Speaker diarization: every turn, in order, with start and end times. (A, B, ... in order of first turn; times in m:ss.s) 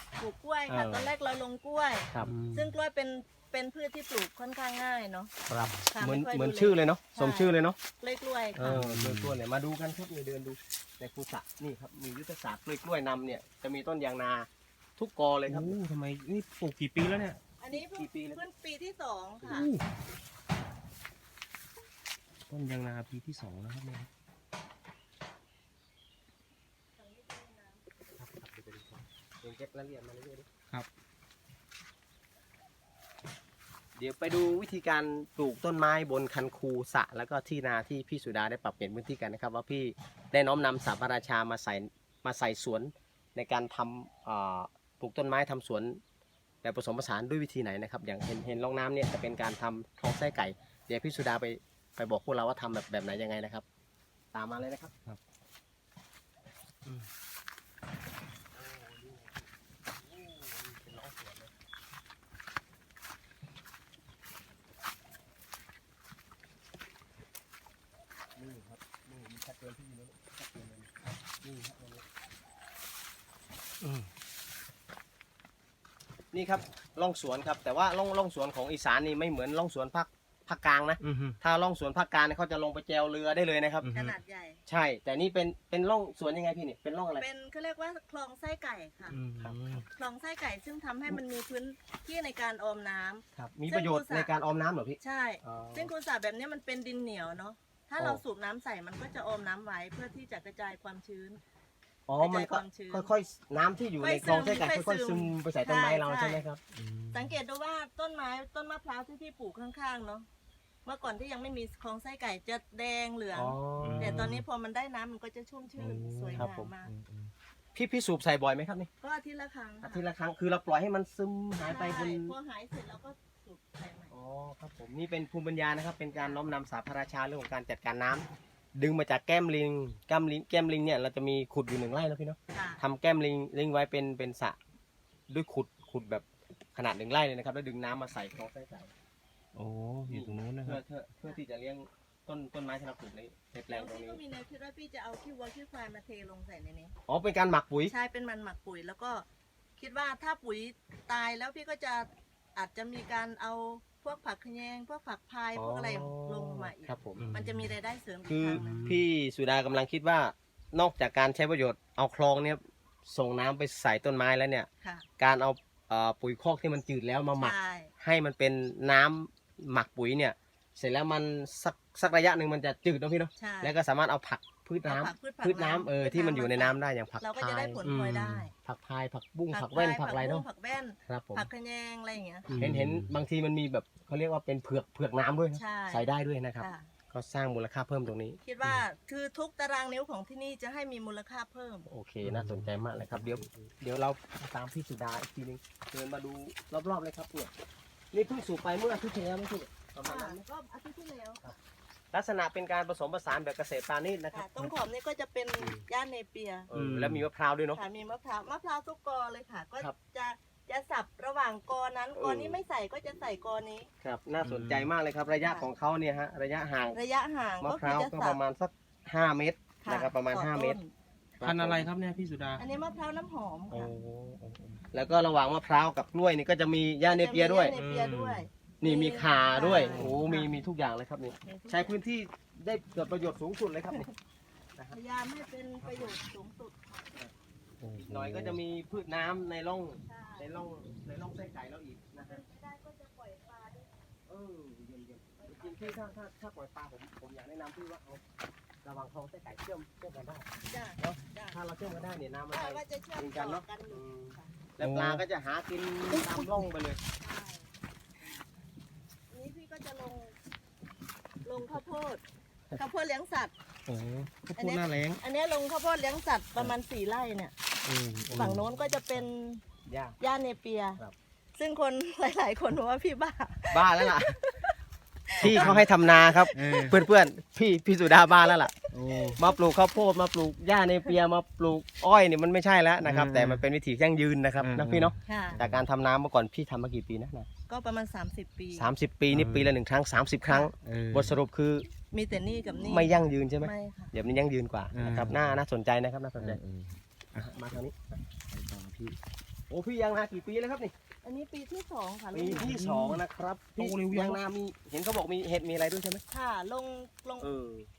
0:00.2-0:05.3 A
0:00.7-0:01.1 B
0:02.2-0:02.7 C
0:05.5-0:07.8 B
0:05.5-0:05.8 C
0:05.9-0:08.8 A
0:08.6-0:15.7 B
0:08.6-0:09.4 C
0:15.5-0:17.4 C
0:17.6-0:19.7 A
0:17.7-0:18.4 B
0:19.4-0:19.7 B
0:19.5-0:19.8 C
0:22.5-0:24.1 B
0:27.0-0:27.8 A
0:28.2-0:30.5 B
0:34.0-0:46.0 B
0:46.6-0:53.6 B
0:54.3-0:55.0 B
0:58.5-1:01.5 B
1:08.4-1:12.0 B
1:13.8-1:14.1 C
1:16.3-1:23.9 B
1:21.0-1:21.4 C
1:23.8-1:24.2 C
1:23.9-1:24.6 A
1:24.7-1:27.2 B
1:27.2-1:29.2 A
1:29.1-1:29.8 C
1:29.4-1:29.8 B
1:29.9-1:34.3 A
1:33.3-1:35.9 B
1:35.0-1:41.4 A
1:42.1-1:46.6 B
1:42.2-1:43.1 A
1:44.0-1:46.4 A
1:46.7-1:47.4 C
1:47.1-1:50.3 A
1:50.8-1:56.9 A
1:53.3-1:54.4 B
1:53.8-1:54.4 C
1:55.8-1:57.3 C
1:56.3-1:56.7 B
1:57.7-1:58.9 B
1:59.0-2:00.0 A
1:59.8-2:02.3 B
2:01.6-2:04.1 A
2:04.1-2:14.6 B
2:06.1-2:06.4 A
2:12.5-2:12.8 A
2:15.3-2:18.9 B
2:19.5-2:20.8 C
2:20.1-2:24.2 B
2:23.7-2:26.9 A
2:27.1-2:27.9 B
2:27.9-2:29.2 A
2:29.8-2:38.8 A
2:35.6-2:37.3 B
2:37.2-2:37.7 C
2:38.3-2:44.7 B
2:38.5-2:39.0 C
2:44.8-2:45.0 A
2:45.2-2:57.9 B
2:47.4-2:47.9 A
2:53.4-2:53.7 A
2:54.8-2:58.5 A
2:57.8-2:58.5 C
2:58.6-3:00.4 B
2:59.5-3:02.5 A
3:01.1-3:01.5 B
3:02.5-3:03.2 C
3:02.5-3:08.4 B
3:05.5-3:06.1 A
3:06.6-3:06.9 A
3:08.4-3:11.9 A
3:11.9-3:17.5 B
3:12.2-3:13.5 C
3:18.1-3:20.4 B
3:20.0-3:21.6 A
3:22.1-3:24.7 B
3:24.3-3:26.7 A
3:26.7-3:27.8 B
3:26.7-3:27.2 C
3:27.7-3:33.9 A
3:32.2-3:32.6 B
3:34.0-3:37.0 B
3:34.4-3:34.9 C
3:35.4-3:35.7 A
3:36.9-3:38.4 A
3:37.6-3:40.8 B
3:39.8-3:40.9 A
3:41.4-3:41.9 B
3:41.4-3:42.6 C
3:42.6-3:43.9 A
3:43.7-3:44.8 C
3:44.9-3:47.8 B
3:47.0-3:50.5 A
3:47.7-3:48.5 C
3:48.8-3:54.1 B
3:49.6-3:50.2 C
3:51.4-3:52.0 A
3:54.9-3:57.2 A
3:57.8-3:58.6 C
3:58.0-4:02.4 B
4:00.0-4:00.5 A
4:02.2-4:03.9 A
4:04.3-4:08.2 B
4:05.4-4:06.0 A
4:08.8-4:17.0 B
4:10.6-4:11.6 A
4:12.5-4:14.5 A
4:14.8-4:15.2 C
4:16.1-4:16.7 C
4:17.2-4:17.7 A
4:19.3-4:20.4 A
4:21.4-4:22.2 A
4:22.8-4:23.5 A
4:23.9-4:24.4 C
4:24.4-4:25.2 B
4:24.6-4:27.5 A
4:27.8-4:28.6 C
4:28.3-4:28.6 B
4:28.3-4:29.6 A
4:29.8-4:30.2 B
4:30.2-4:31.0 A
4:31.5-4:34.7 A
4:33.7-4:34.4 B
4:35.3-4:37.0 A
4:35.4-4:35.8 C
4:35.4-4:47.5 B
4:36.5-4:37.0 C
4:38.9-4:39.4 C
4:39.1-4:39.6 A
4:43.0-4:43.6 C
4:44.6-4:45.8 C
4:45.2-4:45.6 A
4:47.7-4:48.9 A
4:48.7-4:51.9 B
4:49.3-4:49.7 C
4:50.8-4:51.4 C
4:52.1-4:54.1 A
4:52.7-4:56.6 B
4:54.9-4:55.6 C
4:56.4-4:57.6 C
4:57.3-4:58.2 B
4:58.5-4:59.2 C
4:59.7-5:00.9 B
5:01.2-5:02.8 A
5:02.3-5:06.2 B
5:02.6-5:03.2 C
5:03.8-5:04.4 C
5:06.3-5:07.5 A
5:07.4-5:07.9 B